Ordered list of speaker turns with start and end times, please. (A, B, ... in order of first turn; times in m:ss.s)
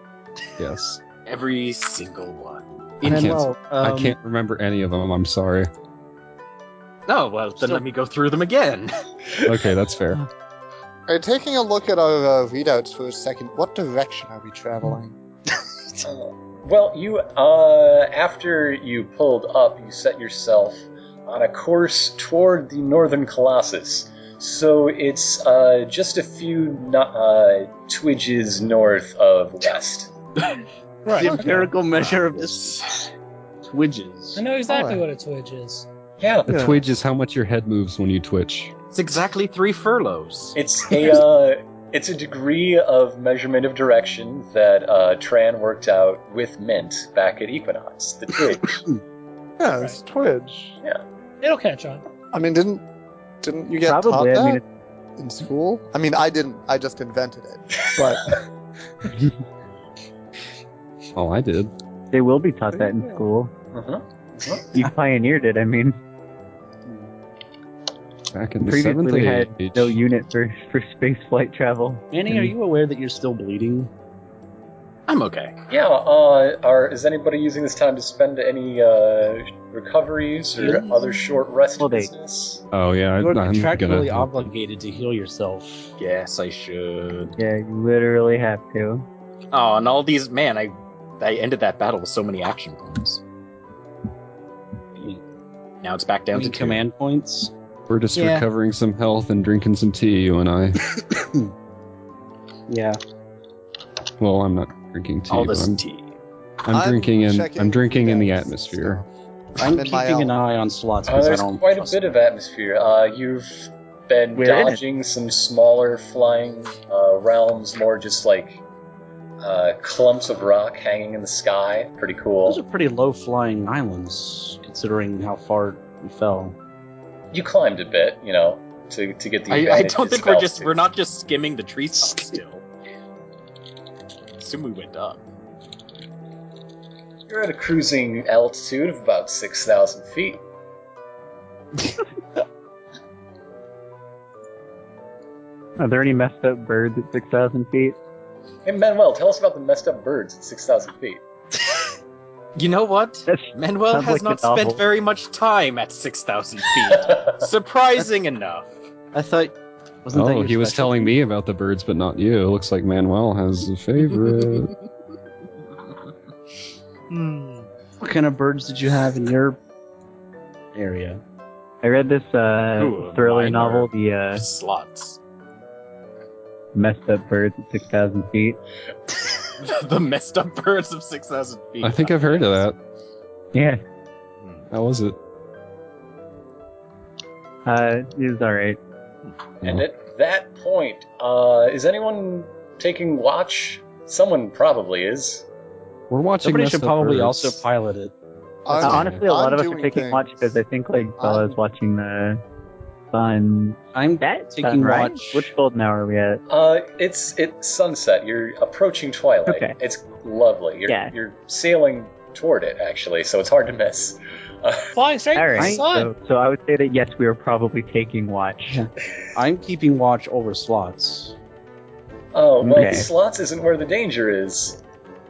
0:00.6-0:01.0 A
0:01.2-0:03.4 B
0:03.0-0:04.2 C
0:03.0-0:05.7 A
0:07.1-0:08.9 B
0:09.4-0:10.2 A
0:11.1-0:15.1 D
0:16.0-0:30.1 E
0:31.0-0:31.7 F
0:31.1-0:33.0 C
0:31.9-0:33.1 B
0:33.6-0:34.4 C
0:34.4-0:35.9 F
0:34.7-0:35.0 D
0:36.2-0:36.5 E
0:36.4-0:38.7 A
0:36.5-0:36.8 D
0:38.9-0:40.6 B
0:40.5-0:48.8 E
0:49.6-0:50.8 D
0:51.4-0:52.0 F
0:52.3-0:52.8 D
0:53.4-0:54.6 D
0:53.8-0:54.6 G
0:55.2-0:58.4 D
0:58.0-0:58.4 E
1:01.2-1:01.7 A
1:02.1-1:03.5 G
1:02.7-1:03.2 D
1:03.7-1:04.7 E
1:04.7-1:06.0 G
1:08.3-1:09.9 A
1:08.6-1:12.5 G
1:12.1-1:13.9 C
1:15.1-1:15.6 B
1:15.7-1:22.6 E
1:20.6-1:21.0 C
1:21.8-1:22.1 G
1:22.7-1:24.5 A
1:23.2-1:25.9 C
1:26.0-1:27.4 B
1:27.4-1:29.1 G
1:29.5-1:33.2 B
1:35.8-1:36.8 B
1:36.3-1:37.5 C
1:37.9-1:40.8 A
1:38.1-1:38.4 F
1:41.1-1:41.5 C
1:42.7-1:43.0 C
1:44.2-1:45.8 A
1:45.3-1:46.1 B
1:46.6-1:49.0 A
1:46.7-1:49.1 D
1:49.6-1:52.1 C
1:49.6-1:50.3 D
1:51.1-1:58.6 E
1:54.4-1:54.8 C
1:59.4-2:02.6 E
2:02.4-2:06.6 C
2:07.3-2:10.8 E
2:09.5-2:12.6 B
2:14.4-2:15.2 B
2:17.3-2:20.4 E
2:25.8-2:28.0 G
2:28.6-2:31.2 E
2:32.6-2:38.7 B
2:33.3-2:34.8 G
2:36.9-2:37.4 E
2:39.1-2:41.2 C
2:40.1-2:44.7 A
2:47.1-2:47.7 B
2:48.0-2:49.6 C
2:50.7-2:51.2 C
2:51.8-2:54.4 G
2:52.8-2:55.2 B
2:56.7-2:58.6 G
2:59.6-3:02.6 B
3:01.8-3:02.8 A
3:03.5-3:03.8 G
3:04.4-3:04.7 B
3:04.7-3:05.2 A
3:07.6-3:08.8 G
3:09.6-3:15.4 E
3:16.1-3:17.6 A
3:16.4-3:18.1 C
3:18.6-3:20.4 D
3:18.7-3:19.2 A
3:18.8-3:22.4 G
3:21.2-3:21.6 D
3:23.1-3:26.4 G
3:23.9-3:25.5 C
3:26.5-3:34.9 E
3:29.4-3:29.8 G
3:30.9-3:31.1 G
3:34.9-3:36.1 F
3:35.3-3:38.8 G
3:35.6-3:35.9 C
3:38.7-3:41.4 C
3:42.3-3:44.8 E
3:42.6-3:43.1 G